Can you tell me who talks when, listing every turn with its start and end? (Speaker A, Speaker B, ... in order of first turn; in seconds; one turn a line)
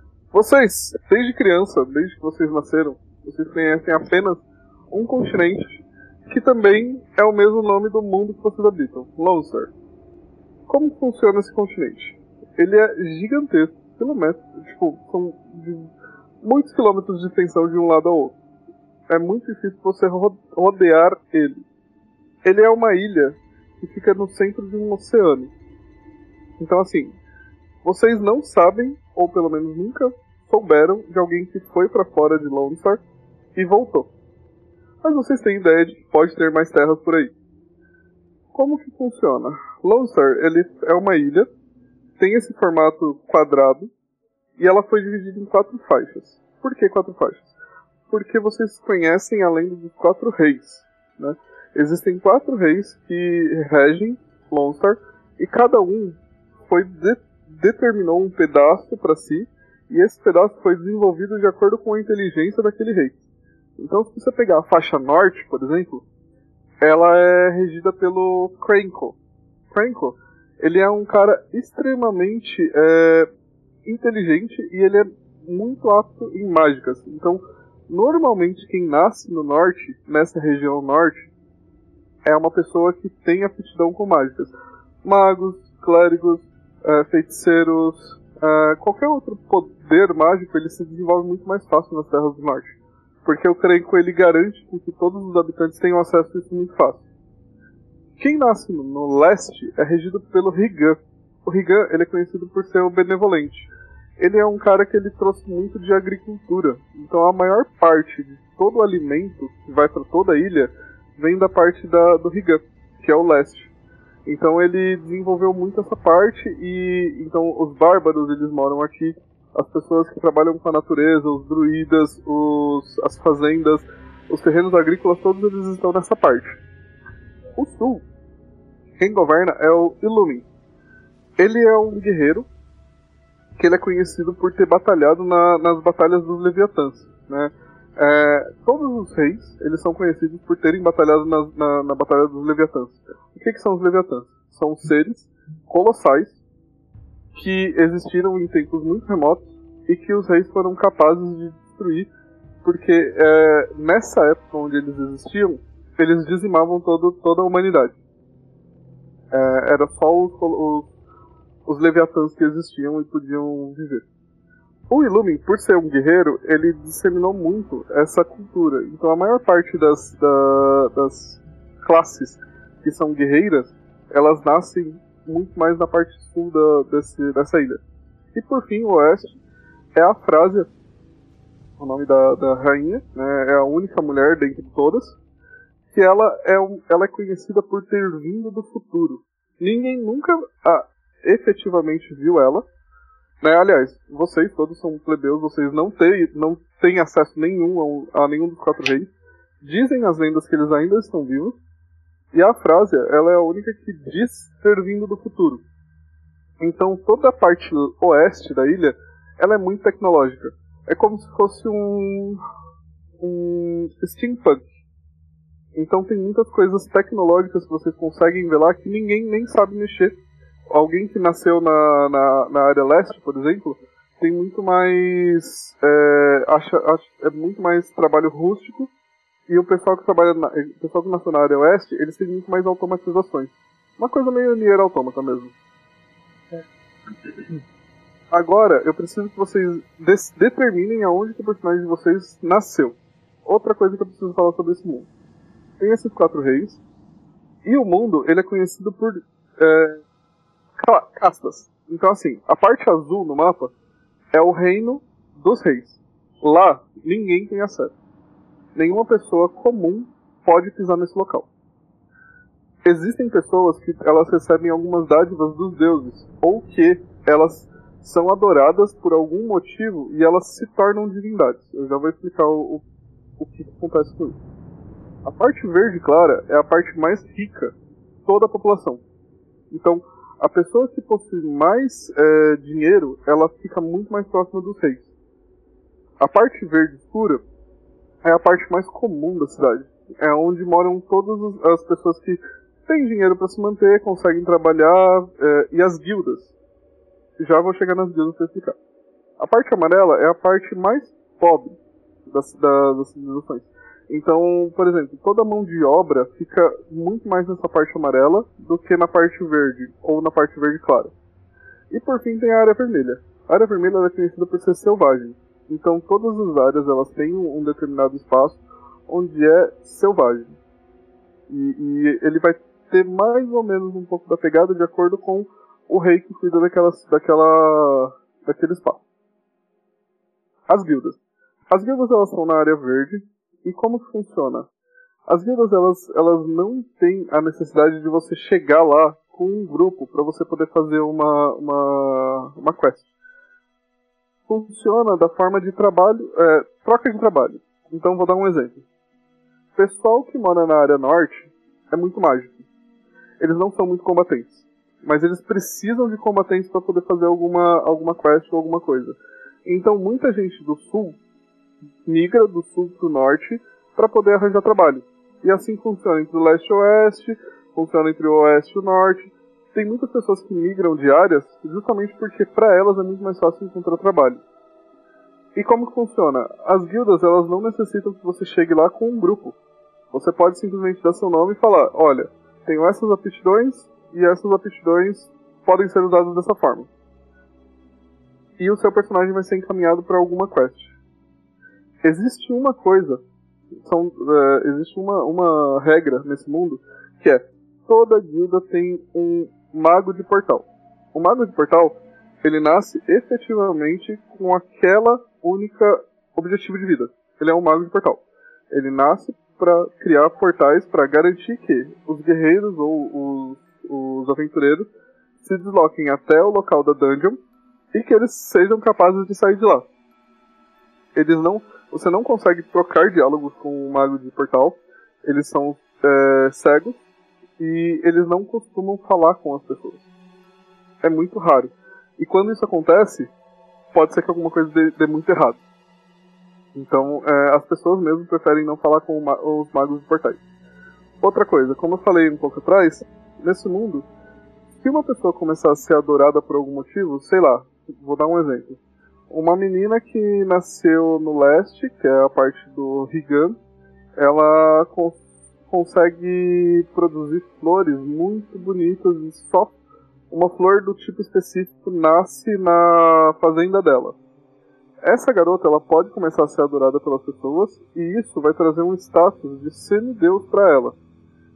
Speaker A: 0.3-5.8
Speaker A: 6.3-9.7
Speaker A: 10.7-15.9
Speaker A: 16.4-18.4
Speaker A: 19.1-21.6
Speaker A: 22.4-25.5
Speaker A: 26.6-27.2
Speaker A: 27.8-33.0
Speaker A: 33.5-34.1
Speaker A: 35.0-37.3
Speaker A: 38.5-41.5
Speaker A: 42.2-43.9
Speaker A: 44.6-47.5
Speaker A: 48.1-56.2
Speaker A: 56.7-63.1
Speaker A: 63.8-66.0
Speaker A: 66.8-69.2
Speaker A: 69.7-73.3
Speaker A: 73.8-81.2
Speaker A: 82.2-84.5
Speaker A: 85.0-92.7
Speaker A: 93.2-97.0
Speaker A: 98.2-103.7
Speaker A: 104.2-113.7
Speaker A: 114.2-126.5
Speaker A: 127.6-128.0
Speaker A: 129.0-130.4
Speaker A: 131.4-132.4
Speaker A: 133.6-146.3
Speaker A: 147.3-152.1
Speaker A: 152.6-157.9
Speaker A: 159.3-160.9
Speaker A: 161.7-164.0
Speaker A: 164.9-177.8
Speaker A: 178.3-179.3
Speaker A: 179.9-180.7
Speaker A: 181.8-185.2
Speaker A: 185.9-192.6
Speaker A: 193.4-199.1
Speaker A: 199.6-201.6
Speaker A: 202.3-205.6
Speaker A: 206.6-212.4
Speaker A: 213.2-214.6
Speaker A: 215.7-220.2
Speaker A: 220.7-228.9
Speaker A: 229.5-235.5
Speaker A: 238.3-242.9
Speaker A: 243.4-245.1
Speaker A: 245.8-246.8
Speaker A: 247.6-250.0
Speaker A: 250.8-253.7
Speaker A: 254.3-257.9
Speaker A: 258.7-261.5
Speaker A: 262.8-272.8
Speaker A: 273.4-274.4
Speaker A: 275.2-277.7
Speaker A: 278.2-279.0
Speaker A: 279.7-285.0
Speaker A: 286.2-287.4
Speaker A: 288.2-296.5
Speaker A: 297.4-298.8
Speaker A: 299.4-301.8
Speaker A: 302.3-311.1
Speaker A: 311.9-320.5
Speaker A: 321.5-329.0
Speaker A: 330.7-331.2
Speaker A: 331.7-334.6
Speaker A: 335.3-343.1
Speaker A: 344.5-348.8
Speaker A: 349.8-352.6
Speaker A: 353.4-361.2
Speaker A: 362.1-374.4
Speaker A: 375.5-379.6
Speaker A: 380.1-386.9
Speaker A: 388.6-390.9
Speaker A: 392.0-393.2
Speaker A: 393.8-414.9
Speaker A: 415.4-417.4
Speaker A: 417.9-419.8
Speaker A: 421.1-427.0
Speaker A: 427.6-430.0
Speaker A: 431.0-433.3
Speaker A: 433.9-435.6
Speaker A: 436.7-440.4
Speaker A: 441.2-444.1
Speaker A: 444.8-448.8
Speaker A: 449.3-453.6
Speaker A: 454.2-455.2
Speaker A: 455.7-459.7
Speaker A: 460.3-464.1
Speaker A: 465.0-470.9